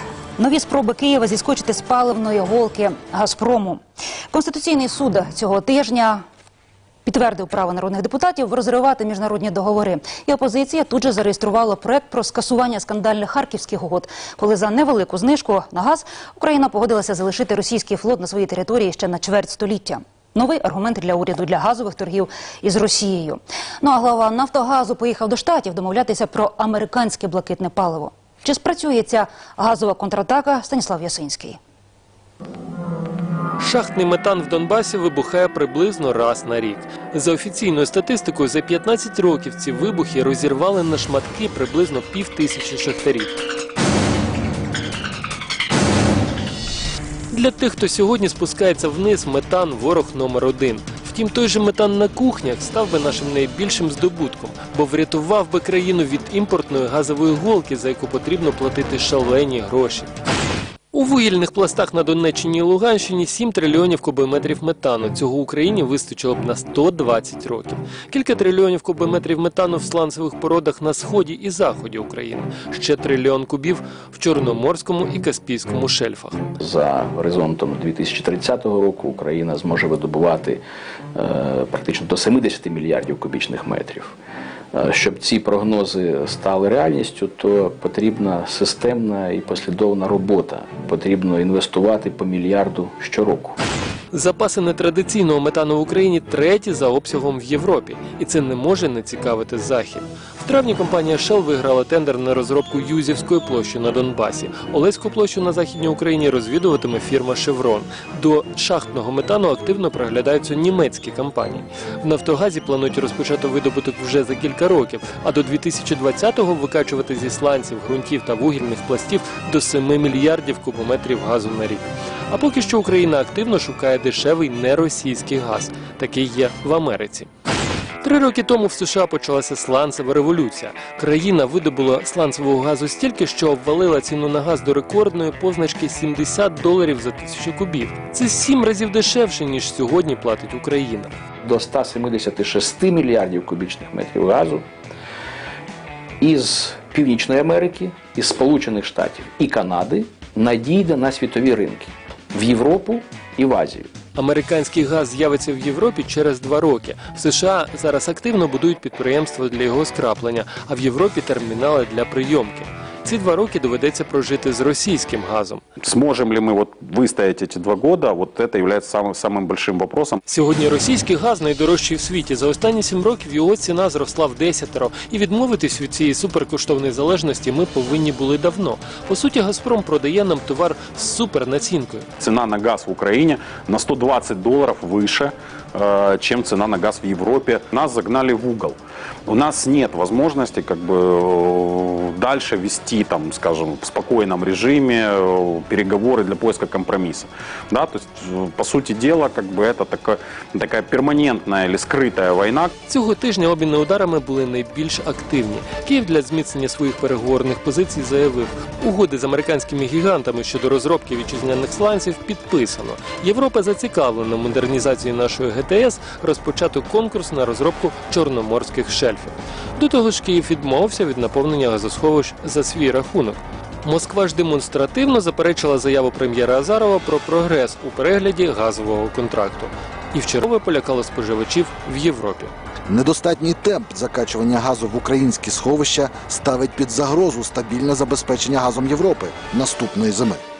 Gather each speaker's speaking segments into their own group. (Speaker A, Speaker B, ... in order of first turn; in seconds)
Speaker A: 0.4-6.2, 7.0-31.6
Speaker B: 33.6-43.4, 47.3-60.1, 60.9-76.4, 94.1-127.3, 128.0-141.1, 154.1-165.6, 170.3-182.1, 202.9-232.5
Speaker C: 76.6-80.6, 81.1-84.1, 84.7-93.5, 141.4-144.6, 146.2-153.9
Speaker D: 165.8-170.2, 182.2-202.7
Speaker E: 232.9-240.4